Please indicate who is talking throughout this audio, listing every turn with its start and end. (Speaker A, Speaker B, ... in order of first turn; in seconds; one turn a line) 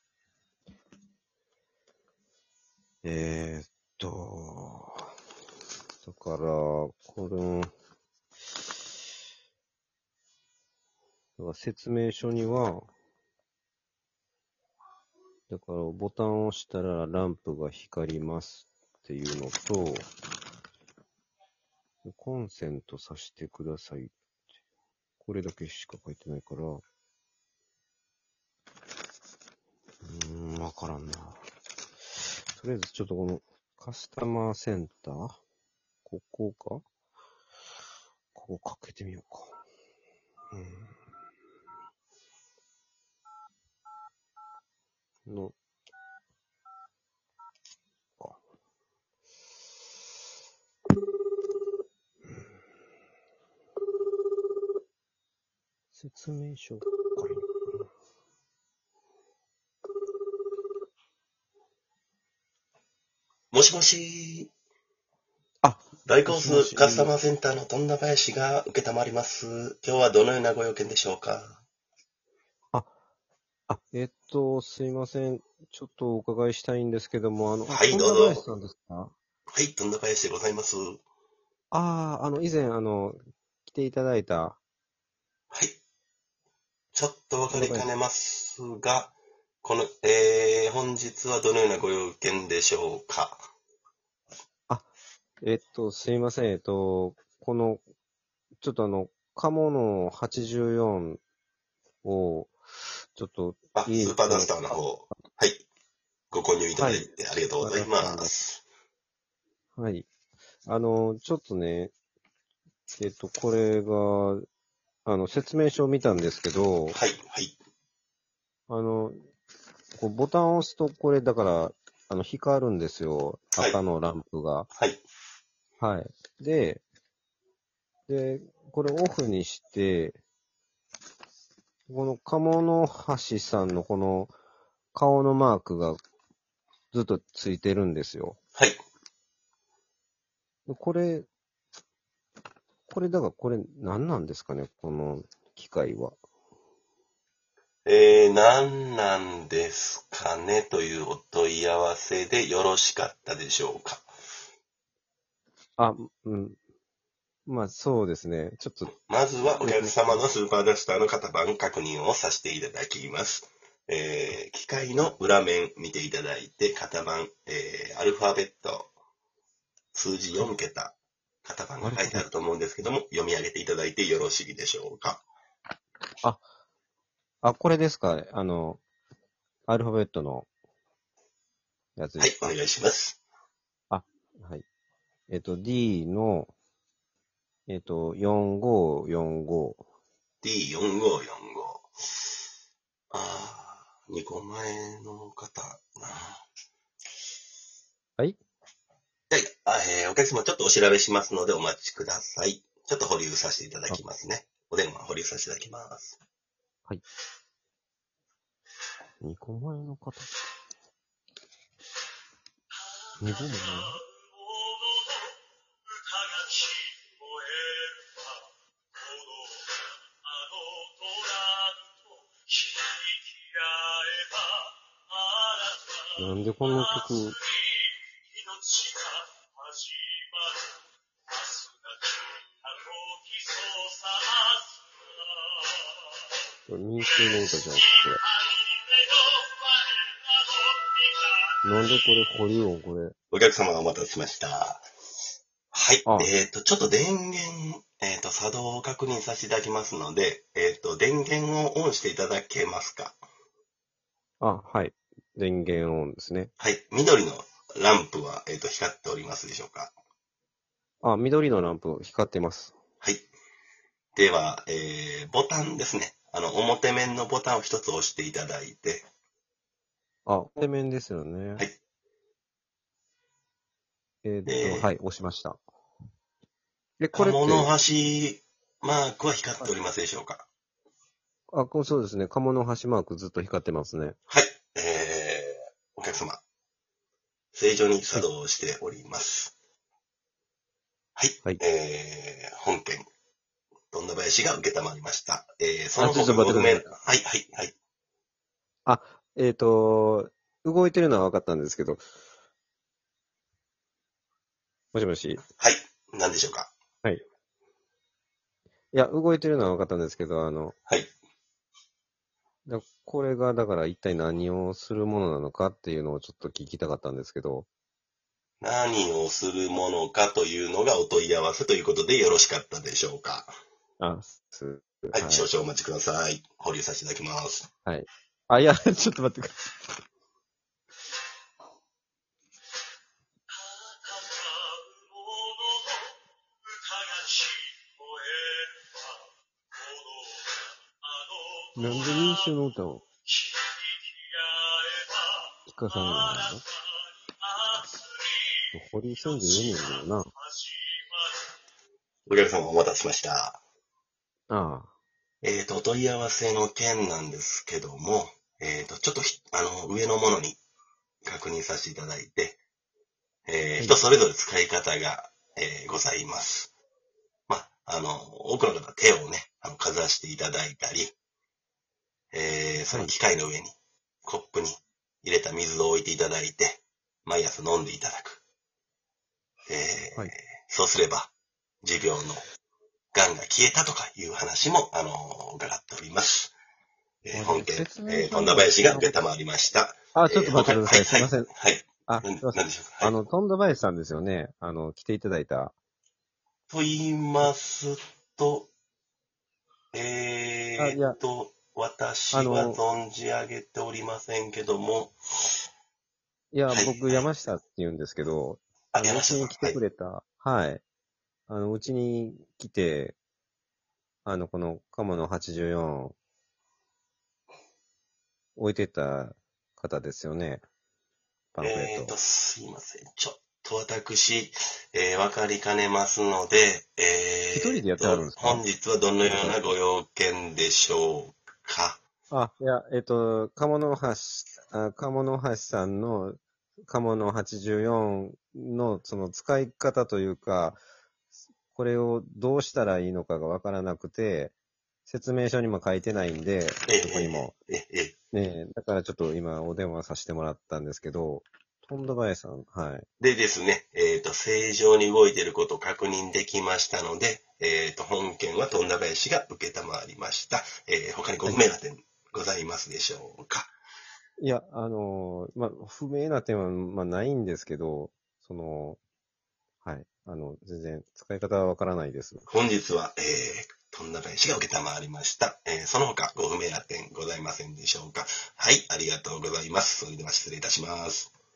Speaker A: 3.0-5.1
Speaker A: 6.0-7.7
Speaker A: 11.4-12.9
Speaker A: 15.5-20.1
Speaker A: 22.1-24.1
Speaker A: 25.2-26.8
Speaker A: 30.0-31.4
Speaker A: 32.5-35.4
Speaker A: 36.1-36.8
Speaker A: 38.3-39.6
Speaker A: 40.5-41.0
Speaker A: 45.3-45.5
Speaker A: 55.9-57.9
Speaker B: 63.5-64.5
Speaker A: 65.6-67.1
Speaker B: 66.1-71.6
Speaker A: 73.7-79.1
Speaker B: 77.7-78.4
Speaker B: 79.5-81.0
Speaker A: 81.7-84.6
Speaker B: 85.5-85.8
Speaker B: 86.9-93.4
Speaker A: 87.5-87.9
Speaker A: 95.4-97.8
Speaker A: 98.6-101.2
Speaker A: 102.0-102.5
Speaker A: 103.2-104.8
Speaker B: 103.8-105.6
Speaker B: 106.3-108.6
Speaker A: 106.8-107.1
Speaker A: 107.6-108.3
Speaker A: 109.8-110.1
Speaker A: 110.7-111.9
Speaker A: 113.0-114.5
Speaker A: 115.1-117.0
Speaker B: 116.9-117.5
Speaker A: 118.7-119.2
Speaker A: 120.0-124.7
Speaker B: 124.8-125.0
Speaker A: 125.8-126.8
Speaker A: 128.1-130.2
Speaker A: 131.9-134.3
Speaker A: 134.9-136.0
Speaker A: 136.9-138.4
Speaker A: 140.7-141.3
Speaker A: 142.9-146.2
Speaker B: 147.9-154.1
Speaker A: 155.8-156.6
Speaker A: 157.5-158.9
Speaker B: 159.1-168.9
Speaker A: 159.4-160.2
Speaker B: 169.9-175.2
Speaker A: 171.8-172.3
Speaker A: 177.4-178.8
Speaker A: 179.7-180.5
Speaker A: 182.0-182.4
Speaker B: 182.2-183.2
Speaker A: 183.9-184.6
Speaker A: 185.3-186.5
Speaker A: 187.7-189.8
Speaker B: 190.4-191.9
Speaker B: 193.1-196.4
Speaker B: 199.3-206.2
Speaker A: 209.2-210.3
Speaker A: 213.2-214.0
Speaker B: 213.2-215.3
Speaker B: 216.1-218.3
Speaker B: 219.0-224.7
Speaker B: 225.4-226.1
Speaker A: 226.2-227.4
Speaker B: 226.6-227.7
Speaker B: 228.3-230.7
Speaker B: 231.4-234.8
Speaker B: 235.3-235.8
Speaker A: 236.7-238.2
Speaker B: 237.4-242.0
Speaker A: 241.6-243.1
Speaker B: 243.3-244.9
Speaker B: 245.7-253.2
Speaker A: 246.1-246.3
Speaker A: 254.4-256.5
Speaker B: 256.6-259.9
Speaker A: 261.0-262.7
Speaker B: 263.0-263.3
Speaker B: 264.1-269.1
Speaker A: 270.3-271.6
Speaker A: 274.2-275.6
Speaker B: 274.5-274.9
Speaker A: 277.0-277.7
Speaker B: 277.1-280.4
Speaker A: 281.5-284.2
Speaker B: 284.3-286.4
Speaker B: 287.5-289.5
Speaker B: 291.2-293.1
Speaker B: 293.9-297.7
Speaker A: 296.0-296.9
Speaker A: 298.9-302.0
Speaker A: 304.9-305.4
Speaker B: 305.6-306.7
Speaker A: 308.9-310.8
Speaker A: 312.7-317.7
Speaker B: 318.6-323.5
Speaker A: 324.0-325.4
Speaker B: 325.1-327.7
Speaker A: 327.9-329.6
Speaker B: 333.6-336.1
Speaker B: 336.8-339.1
Speaker B: 339.8-340.6
Speaker B: 341.2-342.5
Speaker A: 341.8-343.1
Speaker B: 343.5-343.7
Speaker B: 344.6-345.3
Speaker A: 345.7-346.6
Speaker B: 345.9-346.6
Speaker B: 347.5-348.5
Speaker A: 348.7-350.3
Speaker B: 349.2-350.0
Speaker B: 350.6-351.3
Speaker B: 352.3-353.6
Speaker A: 354.5-354.9
Speaker B: 355.4-360.6
Speaker B: 361.2-362.6
Speaker B: 363.5-366.7
Speaker B: 367.5-371.1
Speaker B: 372.3-378.4
Speaker B: 379.7-381.3
Speaker B: 381.8-382.4
Speaker B: 383.1-386.5
Speaker B: 387.2-393.1
Speaker A: 387.3-389.2
Speaker A: 390.1-391.5
Speaker A: 392.1-395.8
Speaker B: 396.7-398.7
Speaker B: 399.9-405.2
Speaker A: 400.8-401.2
Speaker A: 402.3-402.8
Speaker A: 406.5-410.8
Speaker B: 406.7-407.3
Speaker B: 408.9-409.8
Speaker A: 411.5-413.2
Speaker A: 414.2-416.1
Speaker A: 418.6-420.6
Speaker A: 421.6-422.1
Speaker B: 421.6-432.0
Speaker A: 427.5-428.6
Speaker A: 429.2-429.8
Speaker A: 432.3-440.8
Speaker A: 441.7-444.5
Speaker A: 445.1-447.5
Speaker B: 446.9-448.1
Speaker A: 448.3-453.1
Speaker B: 453.2-463.7
Speaker A: 464.4-469.0
Speaker A: 469.9-472.5
Speaker B: 472.5-481.3